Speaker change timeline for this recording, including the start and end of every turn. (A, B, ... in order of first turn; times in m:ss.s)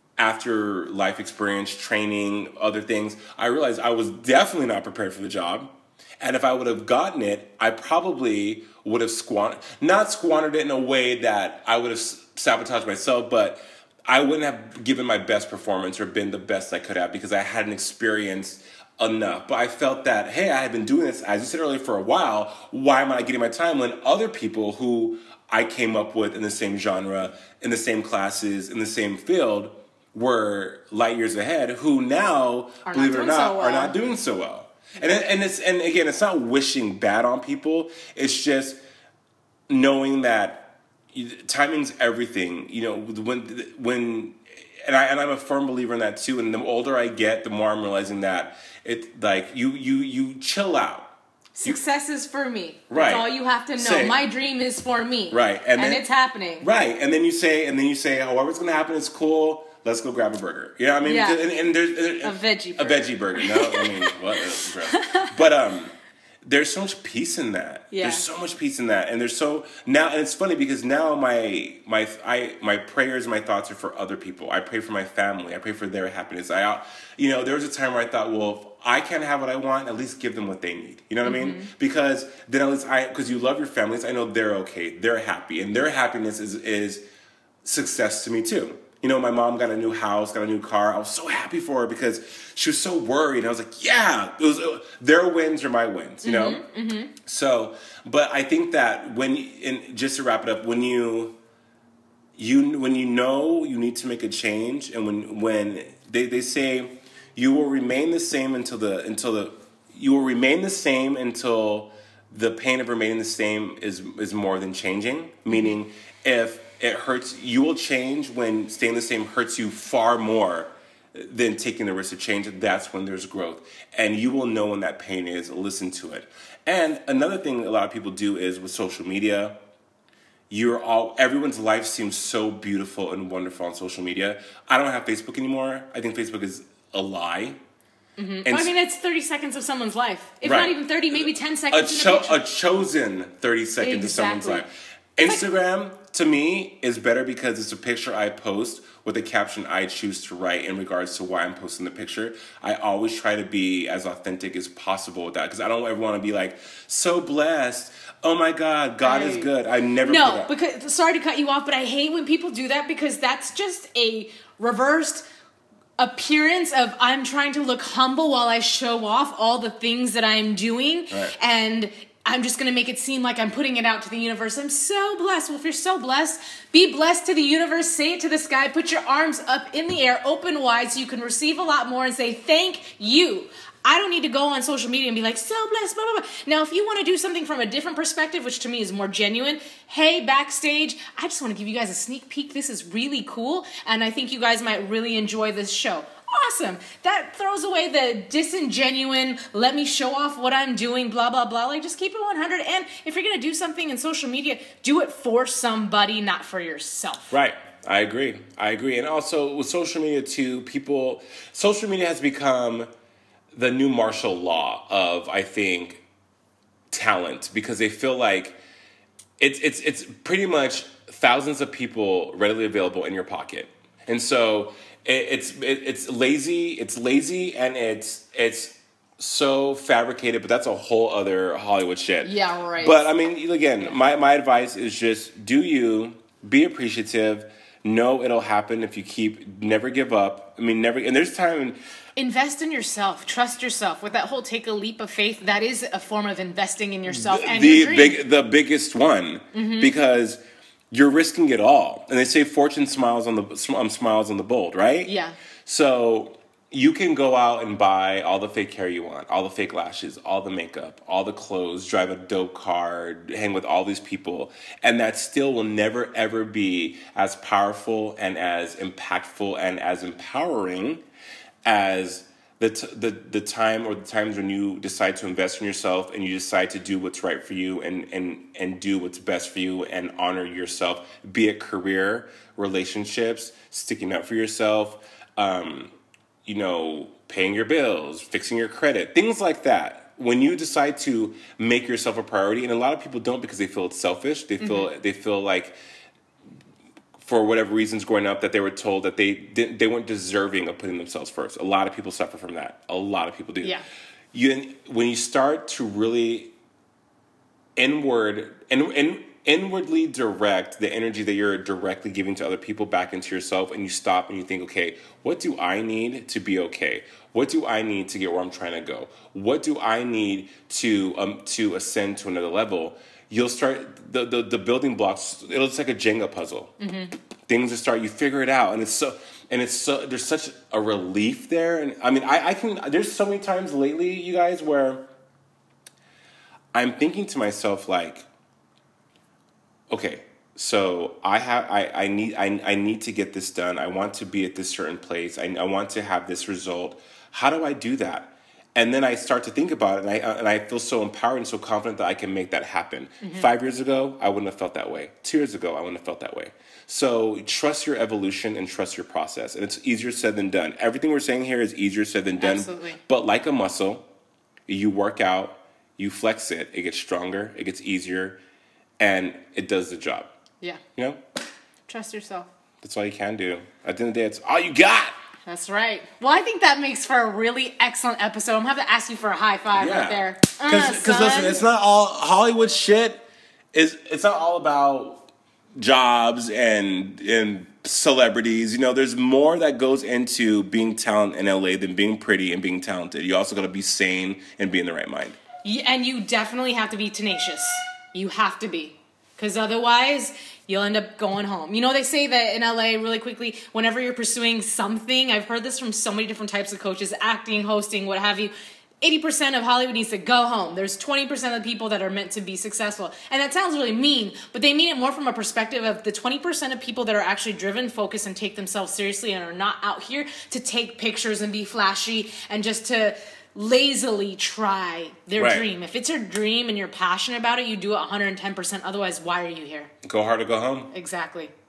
0:00.2-0:38.8 A
0:32.8-0:34.0 B
0:39.7-0:51.1 A
0:51.6-0:56.7 B
0:52.9-0:54.2 A
0:55.3-0:56.0 A
0:56.6-1:27.0 A
1:01.0-1:01.4 B
1:02.2-1:05.3 B
1:07.9-1:08.2 B
1:21.2-1:21.7 B
1:27.6-1:36.6 A
1:36.2-1:37.1 B
1:37.2-1:41.4 A
1:42.4-2:09.6 A
2:10.5-2:17.6 A
2:18.2-2:22.4 B
2:18.4-2:18.7 A
2:20.4-2:21.2 A
2:21.7-2:40.5 A
2:23.8-2:24.6 B
2:39.0-2:39.5 B
2:40.0-2:45.3 B
2:46.0-3:27.3 B
3:27.3-3:32.9 A
3:33.5-3:36.0 A
3:36.9-3:38.6 A
3:39.4-4:01.8 A
3:52.2-3:53.1 B
4:02.2-4:08.2 B
4:07.1-4:10.4 A
4:09.5-4:09.9 B
4:10.9-4:15.1 A
4:15.0-4:15.4 B
4:15.6-4:31.0 A
4:31.6-4:45.9 A
4:46.4-4:55.8 A
4:54.6-4:54.9 B
4:57.2-5:03.8 A
5:04.3-5:06.5 A
5:07.8-5:26.8 A
5:26.8-5:27.1 B
5:27.5-5:35.0 A
5:36.7-5:38.3 A
5:39.9-6:04.1 A
5:53.2-5:53.5 B
6:02.4-6:03.0 B
6:04.7-6:08.4 A
6:09.0-6:10.3 A
6:11.9-6:12.5 B
6:12.8-6:15.1 A
6:15.4-6:21.6 B
6:19.7-6:25.2 A
6:25.8-6:35.4 A
6:35.6-7:09.9 B
7:05.4-7:05.7 A
7:10.0-7:10.9 A
7:10.9-7:11.5 B